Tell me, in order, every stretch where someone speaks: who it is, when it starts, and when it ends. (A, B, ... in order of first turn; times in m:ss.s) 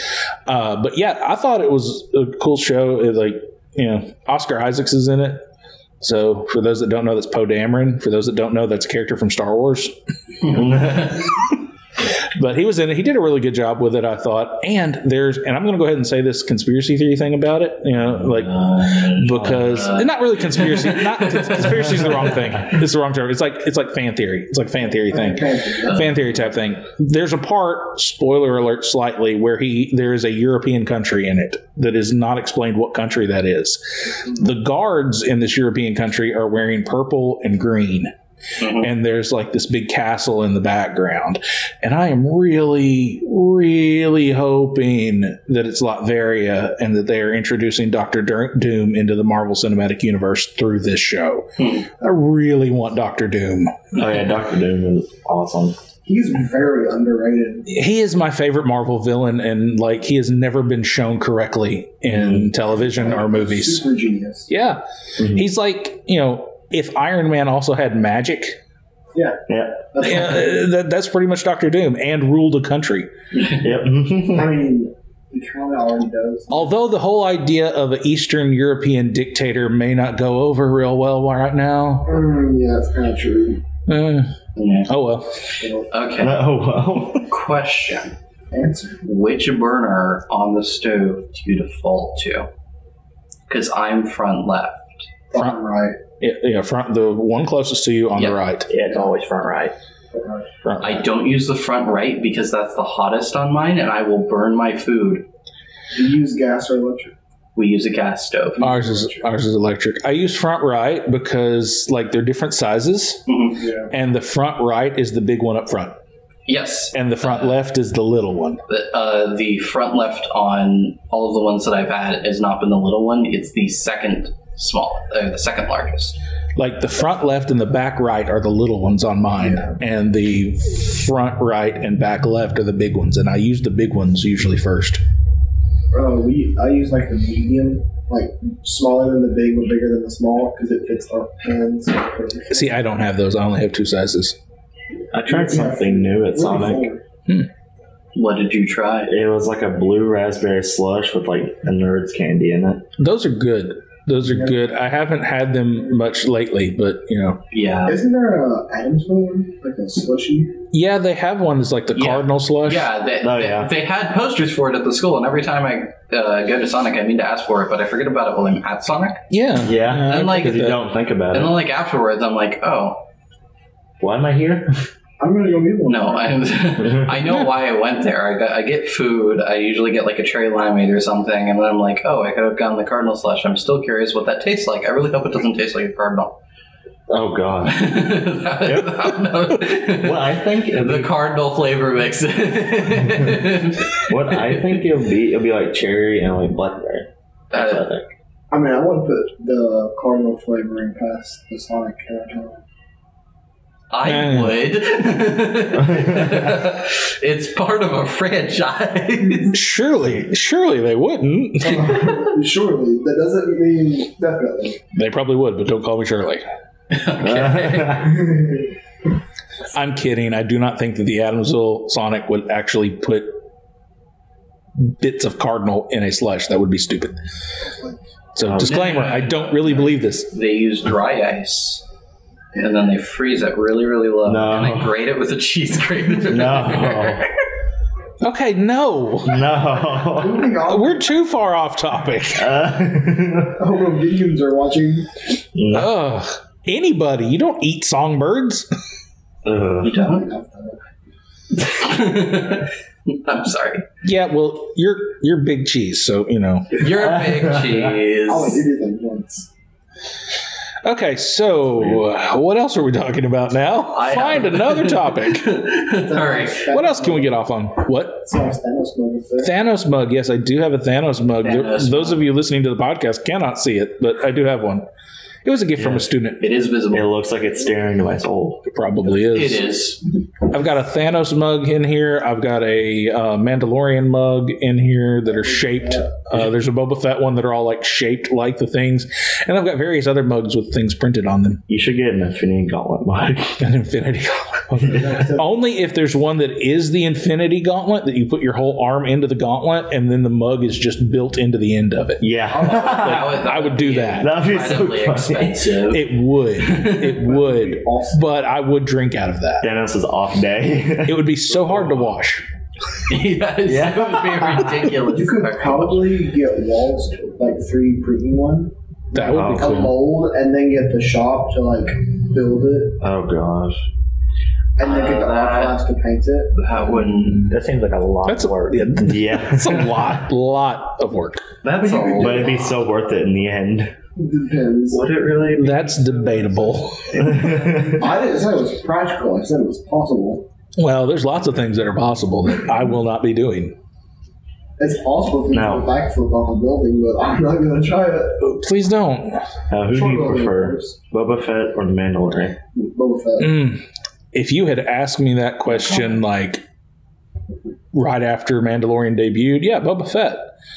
0:00.4-0:05.4 A
0:06.0-0:09.9 A
0:10.5-0:11.3 B
0:10.5-0:11.1 C
0:12.4-0:18.5 A
0:18.2-0:22.6 B
0:19.2-0:38.1 A
0:19.3-0:19.9 C
0:25.1-0:26.1 D
0:25.8-0:26.4 B
0:38.6-0:38.9 B
0:38.6-0:53.9 A
0:51.6-0:51.9 B
0:53.9-0:55.8 C
0:56.0-0:57.7 D
0:57.7-1:03.8 A
1:02.1-1:02.5 C
1:02.8-1:04.5 D
1:04.5-1:08.6 A
1:05.2-1:05.4 C
1:09.1-1:09.4 D
1:09.5-1:09.9 C
1:09.9-1:10.4 D
1:10.0-1:13.1 A
1:13.5-1:14.5 C
1:14.3-1:16.7 D
1:16.5-1:22.1 A
1:22.0-1:23.6 D
1:23.9-1:24.3 A
1:24.6-1:24.9 B
1:24.9-1:25.4 A
1:25.6-1:25.9 D
1:25.9-1:26.4 B
1:26.2-1:27.2 C
1:27.3-1:28.1 B
1:28.5-1:29.0 D
1:29.0-1:32.5 B
1:33.5-1:35.0 B
1:35.3-1:36.0 D
1:36.2-1:38.7 A
1:38.2-1:38.4 B
1:38.7-1:39.7 E
1:40.1-1:40.5 D
1:40.6-1:41.0 A
1:40.8-1:45.2 B
1:45.9-1:47.1 D
1:47.6-1:48.7 B
1:48.6-1:49.2 D
1:48.6-1:53.2 A
1:53.3-1:53.6 B
1:53.6-1:53.9 D
1:53.9-1:56.0 A
1:56.5-1:57.6 B
1:56.9-1:58.6 A
1:58.7-2:06.2 B
2:06.6-2:15.0 A
2:09.4-2:09.7 D
2:15.9-2:22.8 D
2:22.5-2:24.4 A
2:25.1-2:26.9 C
2:25.3-2:27.0 D
2:28.1-2:29.1 B
2:29.1-2:32.8 C
2:33.0-2:37.4 A
2:37.5-2:38.0 B
2:37.9-2:40.6 D
2:40.7-2:42.9 A
2:41.9-2:49.2 B
2:43.2-2:43.7 C
2:49.3-2:50.8 A
2:49.6-2:51.5 C
2:50.1-2:50.7 B
2:51.3-2:53.0 B
2:54.0-2:54.8 C
2:55.2-2:56.4 D
2:55.8-3:06.3 B
2:56.8-2:57.1 C
3:07.1-3:07.9 C
3:07.7-3:14.6 B
3:08.6-3:09.0 C
3:09.9-3:11.1 C
3:14.1-3:18.1 C
3:17.5-3:17.8 B
3:18.5-3:22.6 D
3:23.9-3:29.6 B
3:24.0-3:24.6 A
3:25.9-3:26.3 C
3:29.5-3:32.1 A
3:31.6-3:34.8 D
3:34.9-3:36.4 A
3:36.9-3:38.1 B
3:37.2-3:38.2 C
3:38.1-3:38.7 D
3:39.7-3:43.3 A
3:44.8-3:47.2 A
3:47.6-3:48.0 D
3:48.4-3:50.3 A
3:48.4-3:48.8 C
3:48.6-3:51.8 B
3:52.6-3:57.3 B
3:54.2-3:54.9 C
3:56.3-3:57.2 C
3:58.2-3:59.5 A
3:59.2-4:00.5 C
4:00.0-4:01.1 D
4:00.6-4:02.5 A
4:02.4-4:03.6 C
4:03.6-4:05.1 D
4:05.5-4:05.9 C
4:05.7-4:08.7 A
4:09.4-4:10.0 C
4:09.8-4:10.3 B
4:09.9-4:10.8 D
4:11.5-4:13.8 B
4:14.0-4:17.0 A
4:16.7-4:18.6 B
4:17.2-4:17.8 C
4:18.3-4:19.5 D
4:20.8-4:25.4 A
4:23.9-4:26.6 B
4:26.0-4:27.4 D
4:26.7-4:28.3 A
4:28.2-4:29.5 D
4:29.4-4:34.8 A
4:31.4-4:32.2 B
4:35.4-4:36.4 A
4:35.8-4:36.1 C
4:36.4-4:37.1 B
4:36.9-4:38.6 C
4:38.7-4:39.6 A
4:39.3-4:40.0 B
4:40.5-4:51.6 A
4:45.3-4:46.1 D
4:51.7-4:53.6 C
4:53.6-5:04.3 A
4:54.7-4:55.2 C
4:54.8-4:55.5 D
5:02.2-5:03.3 C
5:02.5-5:03.2 D
5:02.7-5:06.1 B
5:04.2-5:05.8 C
5:05.9-5:09.6 A
5:06.6-5:07.1 B
5:07.1-5:08.2 D
5:09.6-5:11.3 C
5:11.0-5:12.4 A
5:13.1-5:16.1 B
5:13.6-5:14.8 C
5:15.1-5:23.0 D
5:19.1-5:20.0 A
5:19.3-5:19.9 C
5:23.0-5:23.8 C
5:24.8-5:26.5 D
5:24.8-5:25.8 B
5:26.5-5:27.5 B
5:27.5-5:28.9 E
5:28.2-5:31.5 A
5:29.0-5:30.0 C
5:31.6-5:32.8 B
5:31.8-5:32.5 D
5:32.2-5:33.9 C
5:34.2-5:35.0 D
5:34.9-5:36.0 B
5:35.6-5:37.3 A
5:37.2-5:40.4 D
5:37.2-5:38.1 C
5:40.8-5:43.7 A
5:44.8-5:48.4 D
5:45.5-5:45.9 C
5:48.4-5:49.5 A
5:49.7-5:52.6 C
5:49.9-5:50.9 D
5:52.8-5:53.6 D
5:53.4-5:56.6 A
5:57.9-6:00.5 A